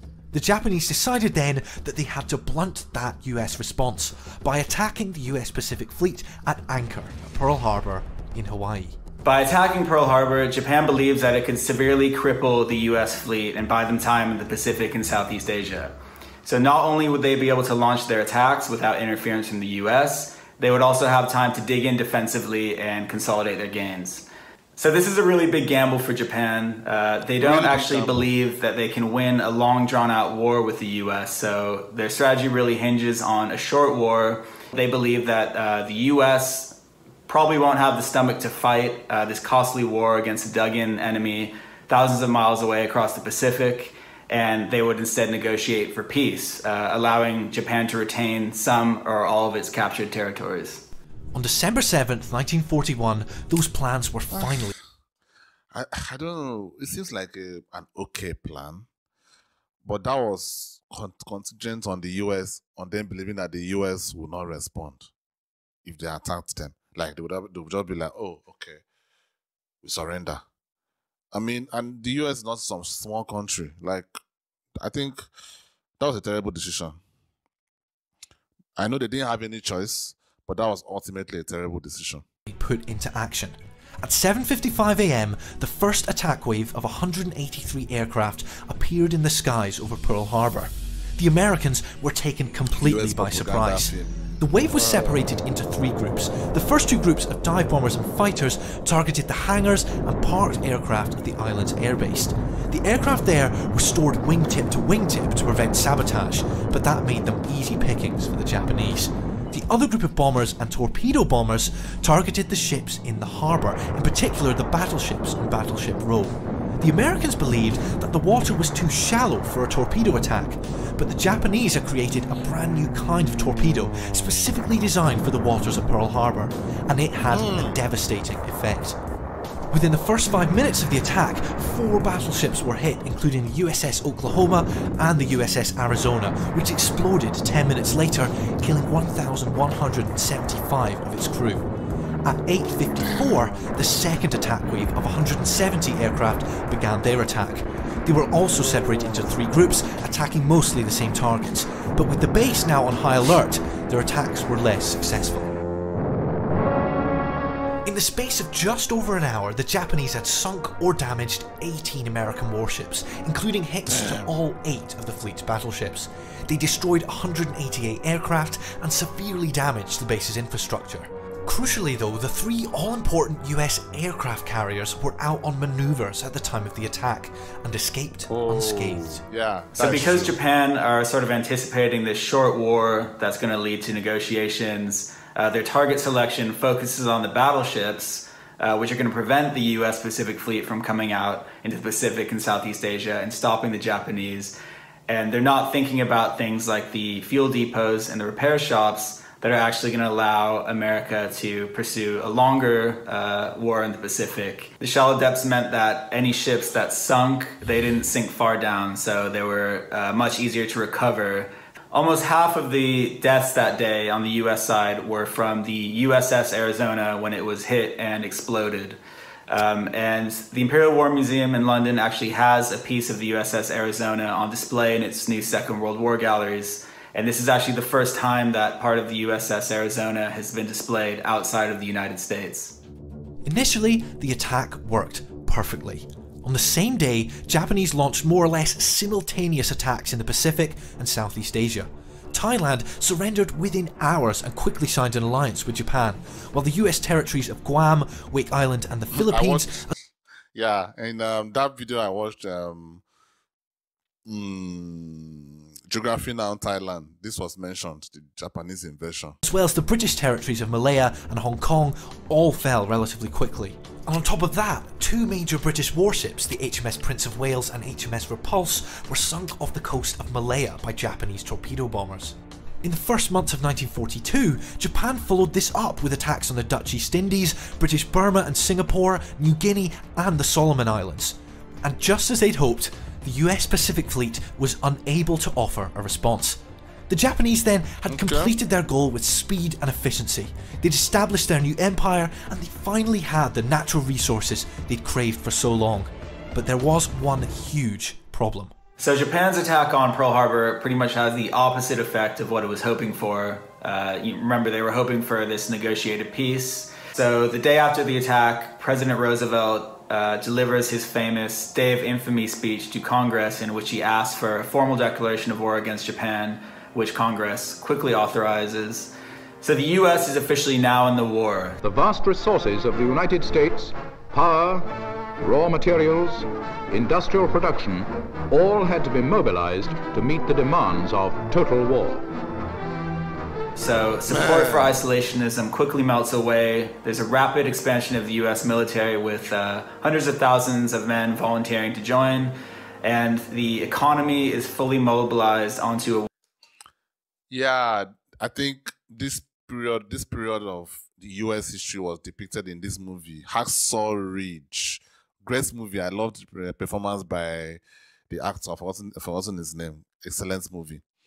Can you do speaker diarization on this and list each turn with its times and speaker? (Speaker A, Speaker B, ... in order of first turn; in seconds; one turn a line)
Speaker A: 0.3-9.0
Speaker B: 9.2-50.8
Speaker C: 27.4-28.3
Speaker A: 51.3-54.7
Speaker C: 54.3-54.7
Speaker C: 55.7-58.9
Speaker C: 59.8-65.1
Speaker C: 65.8-68.8
Speaker C: 69.8-70.4
Speaker C: 71.3-74.2
Speaker C: 74.8-75.2
Speaker C: 76.0-77.0
Speaker C: 78.8-82.2
Speaker A: 82.5-129.0
Speaker C: 92.8-94.1
Speaker C: 94.7-95.2
Speaker C: 127.3-127.8
Speaker A: 129.7-141.7
Speaker A: 142.2-155.5
Speaker A: 157.8-179.2
Speaker C: 163.9-164.3
Speaker C: 178.3-180.4
Speaker B: 179.8-194.6
Speaker B: 195.1-232.8
Speaker A: 233.4-249.9
Speaker C: 249.1-249.9
Speaker C: 250.5-253.0
Speaker C: 254.2-259.4
Speaker A: 259.4-298.7
Speaker C: 288.1-288.5
Speaker B: 299.0-321.8
Speaker D: 321.8-332.2
Speaker B: 333.7-346.3
Speaker C: 334.3-334.9
Speaker C: 347.5-361.0